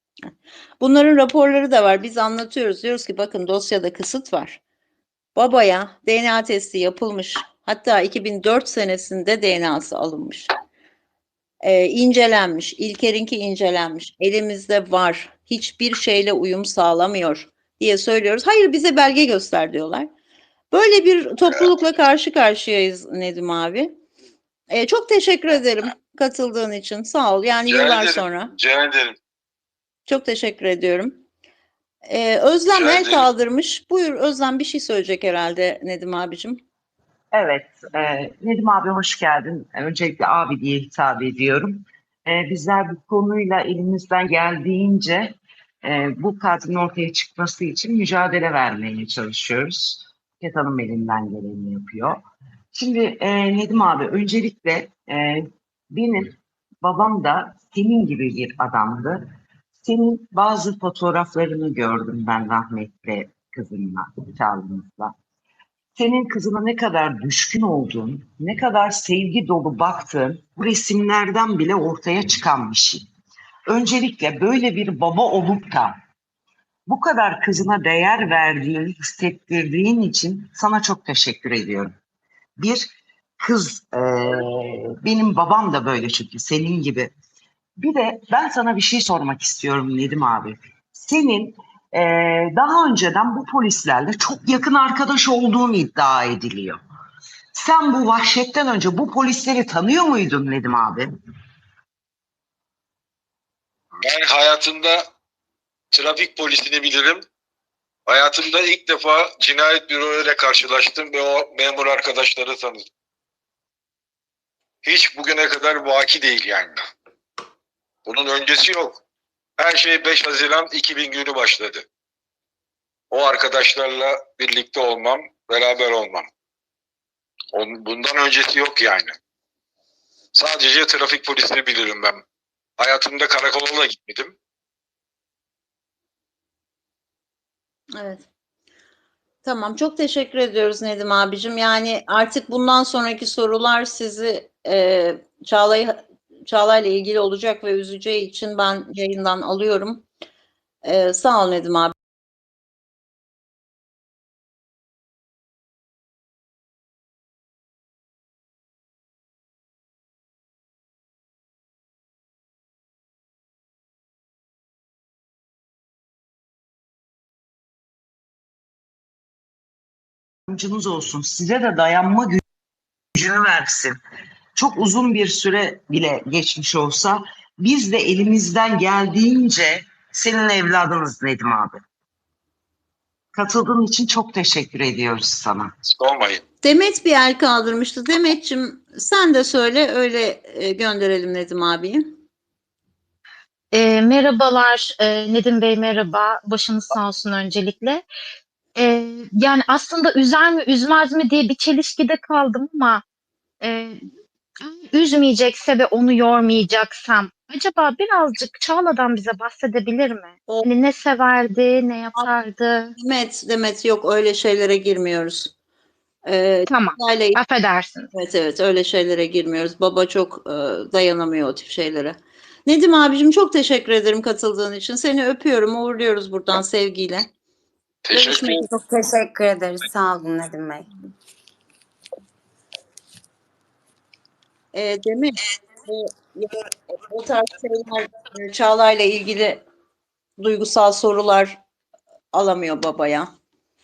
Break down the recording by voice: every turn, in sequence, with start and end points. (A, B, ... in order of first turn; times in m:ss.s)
0:00.8-0:04.6 A
0:05.3-0:10.5 A
0:11.6-0:20.1 A
0:20.7-0:24.0 A
0:24.7-0:28.5 A
0:27.7-0:29.2 B
0:30.1-0:31.2 A
0:32.0-0:36.6 A
0:32.7-0:33.3 B
0:37.3-0:52.2 C
0:52.7-0:59.3 C
0:59.8-1:05.1 C
1:06.0-1:13.1 C
1:13.7-1:16.0 C
1:16.9-1:22.0 C
1:22.6-1:27.1 C
1:27.8-1:36.8 C
1:37.5-1:41.1 C
1:44.0-1:45.0 B
1:45.9-1:47.2 B
1:48.0-1:52.8 B
1:54.8-1:56.8 B
1:58.0-1:59.0 B
1:59.6-2:01.8 B
2:03.1-2:06.3 B
2:07.5-2:09.2 B
2:10.3-2:12.2 B
2:12.8-2:14.3 B
2:18.0-2:18.2 A
2:19.4-2:30.0 A
2:30.8-2:31.9 A
2:50.5-2:52.4 C
2:53.1-2:54.0 C
2:54.5-3:01.8 C
3:03.3-3:05.7 C
3:05.8-3:06.4 B
3:06.6-3:12.1 A
3:13.7-3:18.0 D
3:18.8-3:23.0 D
3:23.6-3:24.0 D
3:24.6-3:32.9 D
3:33.0-3:35.5 A
3:36.2-3:37.4 A
3:36.7-3:38.1 D
3:38.1-3:47.3 A
3:48.0-3:48.6 B
3:48.1-3:48.6 A
3:48.6-3:50.9 E
3:54.7-3:59.6 A
4:00.4-4:01.6 A
4:02.3-4:03.3 A